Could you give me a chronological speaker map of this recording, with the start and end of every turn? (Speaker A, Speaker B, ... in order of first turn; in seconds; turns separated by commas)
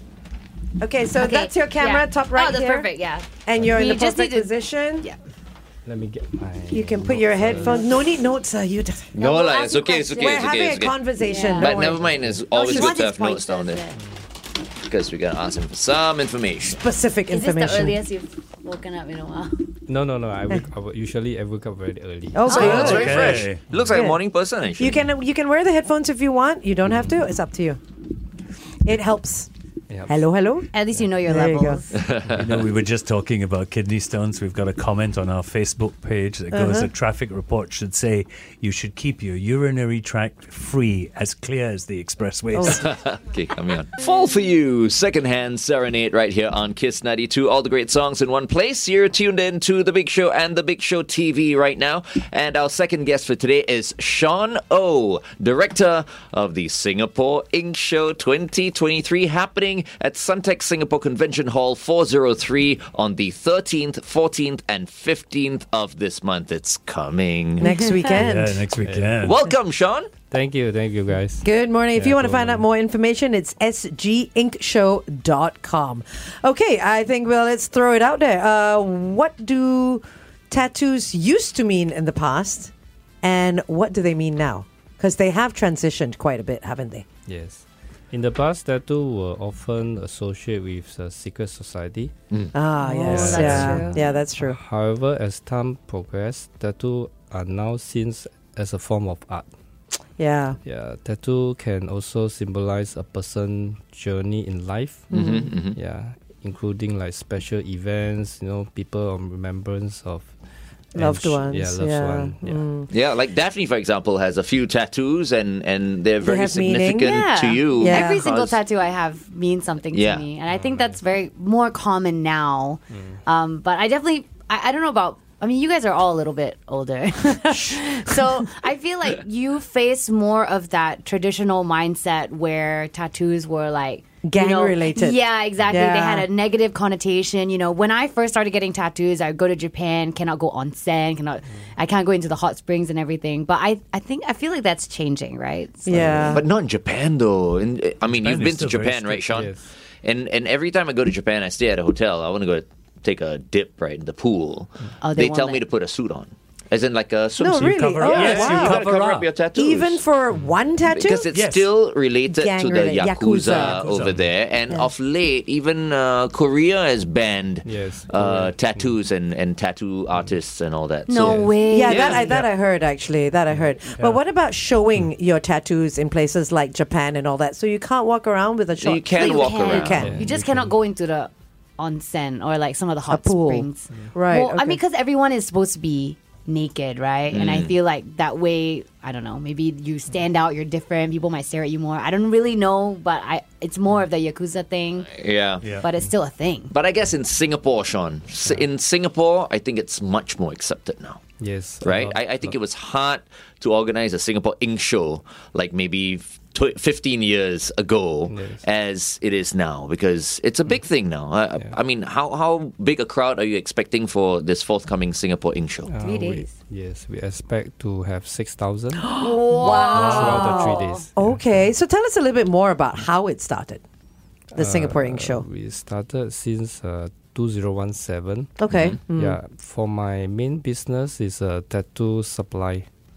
Speaker A: 0.8-2.9, Speaker B: 1.1-5.2, Speaker A: 3.5-5.1, Speaker C: 5.9-8.2, Speaker A: 6.7-9.1, Speaker B: 7.5-7.8, Speaker D: 9.1-11.0, Speaker B: 9.2-10.5, Speaker A: 10.2-12.1, Speaker B: 11.2-11.7, Speaker D: 11.6-13.8, Speaker C: 11.9-12.6, Speaker B: 12.5-14.0, Speaker A: 12.6-12.9, Speaker D: 14.9-16.8, Speaker A: 16.7-18.0, Speaker B: 17.3-19.7, Speaker C: 19.9-22.5, Speaker A: 22.3-23.4, Speaker B: 22.5-23.0, Speaker D: 22.5-25.1, Speaker E: 22.6-23.8, Speaker A: 23.9-24.2, Speaker A: 24.8-27.8, Speaker A: 28.8-29.5, Speaker C: 29.9-30.2, Speaker A: 30.1-30.7, Speaker B: 30.7-32.0, Speaker A: 31.2-31.8, Speaker D: 31.9-32.6, Speaker E: 32.2-42.9, Speaker A: 36.5-36.9, Speaker A: 42.5-42.8, Speaker D: 42.7-67.7, Speaker A: 67.6-68.6, Speaker B: 67.7-68.0, Speaker E: 68.2-69.4, Speaker D: 69.2-70.1, Speaker C: 70.3-72.6, Speaker A: 71.4-87.0, Speaker C: 87.3-92.1, Speaker A: 92.5-94.6, Speaker B: 92.8-94.1, Speaker C: 93.1-99.5, Speaker A: 100.2-100.6, Speaker C: 100.6-110.3, Speaker D: 105.1-105.8, Speaker A: 105.2-105.5, Speaker C: 111.0-112.6, Speaker A: 111.0-112.9, Speaker D: 112.9-118.6, Speaker A: 116.2-117.2, Speaker B: 117.0-146.2, Speaker A: 117.8-118.2, Speaker D: 119.9-120.3, Speaker C: 120.5-121.0, Speaker A: 134.2-136.3, Speaker A: 145.9-146.4, Speaker C: 145.9-146.3, Speaker D: 146.3-160.0, Speaker E: 148.1-149.4, Speaker C: 149.3-149.7, Speaker B: 155.0-155.7, Speaker A: 157.4-158.8, Speaker E: 157.8-159.4, Speaker A: 159.5-161.3, Speaker D: 160.8-172.3, Speaker E: 161.3-161.7, Speaker A: 162.2-164.0, Speaker E: 163.5-164.3, Speaker C: 167.7-169.0, Speaker B: 171.1-172.2, Speaker A: 171.7-180.2, Speaker E: 172.0-172.5, Speaker E: 173.9-174.2, Speaker D: 178.8-180.2, Speaker B: 179.2-195.1, Speaker C: 180.0-180.7, Speaker A: 183.1-184.8, Speaker D: 187.3-187.7, Speaker D: 195.1-195.7, Speaker E: 195.6-195.9, Speaker B: 195.8-196.7, Speaker D: 196.7-201.2, Speaker C: 201.4-202.5, Speaker D: 201.8-215.9, Speaker C: 208.3-208.6, Speaker C: 215.8-219.1, Speaker B: 216.0-216.5, Speaker A: 219.1-223.8, Speaker B: 219.2-221.0, Speaker C: 219.9-221.4, Speaker E: 219.9-220.6, Speaker A: 224.6-225.4, Speaker C: 224.6-228.6, Speaker A: 228.6-229.4, Speaker D: 228.7-229.0, Speaker C: 229.2-232.9